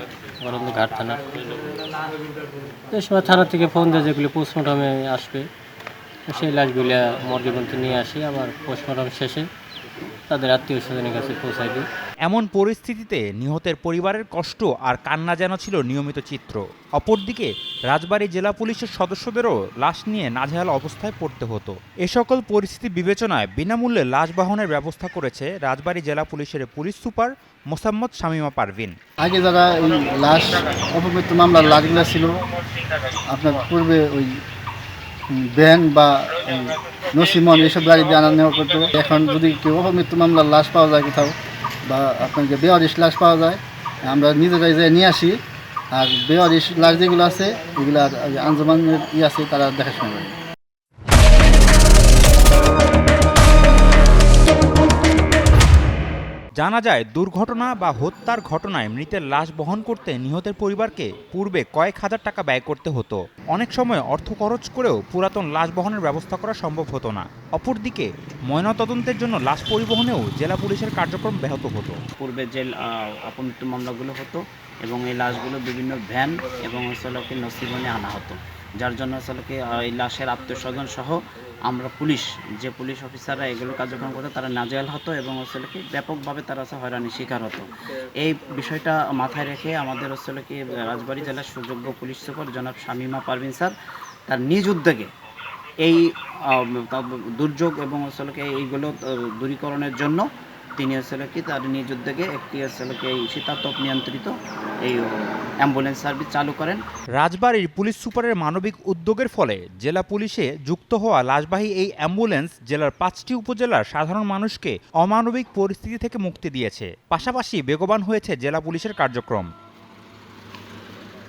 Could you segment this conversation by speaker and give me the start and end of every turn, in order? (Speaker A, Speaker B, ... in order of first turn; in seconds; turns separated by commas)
Speaker A: 0.4-1.6, Speaker A: 2.9-5.5, Speaker A: 6.3-9.5, Speaker A: 10.1-11.9, Speaker B: 12.2-28.9, Speaker C: 29.2-32.4, Speaker C: 33.3-34.4, Speaker C: 35.3-45.4, Speaker C: 45.9-50.4, Speaker B: 56.6-72.0, Speaker D: 72.2-87.7, Speaker D: 88.2-93.7, Speaker D: 94.3-95.1, Speaker D: 95.8-100.2, Speaker D: 100.8-104.3, Speaker D: 105.6-106.8, Speaker B: 107.2-119.5